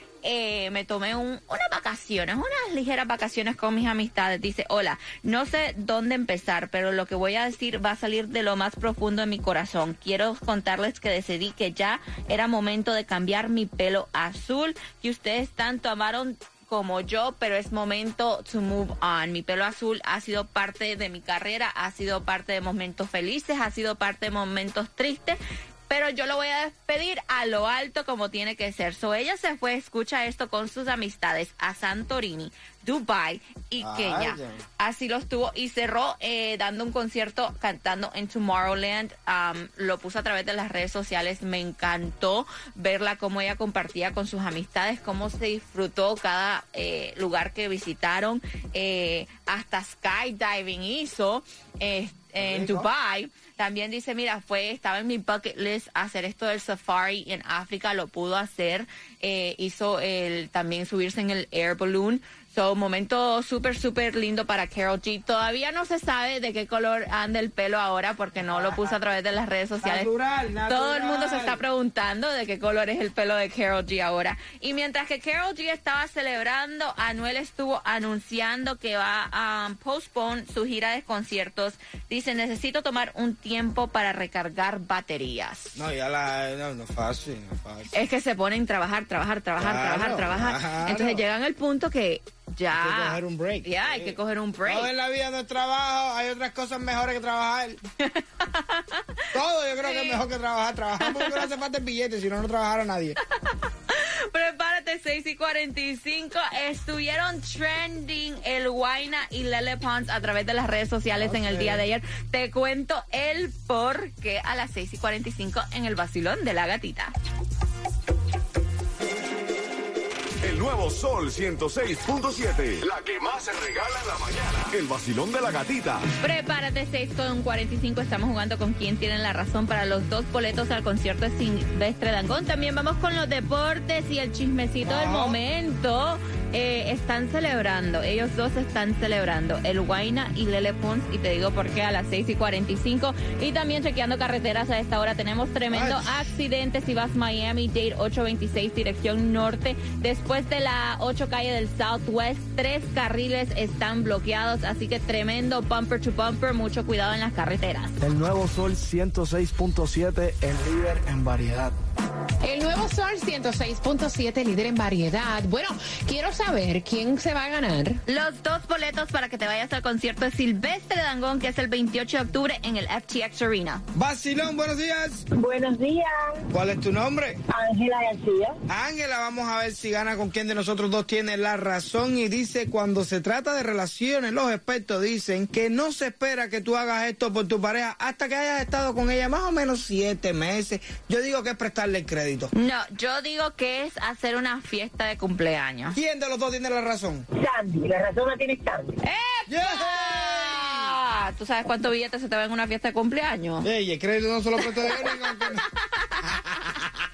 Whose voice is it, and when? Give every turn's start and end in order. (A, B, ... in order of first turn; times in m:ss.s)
0:00.2-1:10.1 A
0:33.8-0:34.6 B
0:52.4-0:52.9 B
1:08.4-1:08.9 B
1:09.8-1:11.6 B
1:10.6-1:25.7 A
1:25.7-1:28.0 B
1:27.9-1:34.9 A
1:29.6-1:31.2 B
1:32.7-1:37.8 B
1:38.0-1:39.2 A
1:39.3-1:43.2 B
1:39.8-1:40.2 A
1:41.0-1:41.5 A
1:43.4-1:57.1 A
1:51.1-1:51.8 B
2:00.4-2:06.0 C
2:06.2-2:38.0 A
2:14.8-2:15.4 B
2:25.7-2:26.3 B
2:38.0-2:41.7 D
2:42.4-2:48.0 E
2:48.1-2:53.8 A
2:53.9-2:55.2 B
2:55.4-2:56.1 F
2:56.5-2:57.4 B
2:57.5-2:58.6 F
2:58.7-3:12.5 B
3:12.5-3:16.0 A
3:15.9-3:17.2 B
3:17.4-3:18.9 F
3:19.0-3:23.7 A
3:19.5-3:21.0 B
3:23.6-3:25.6 B
3:24.6-3:26.6 A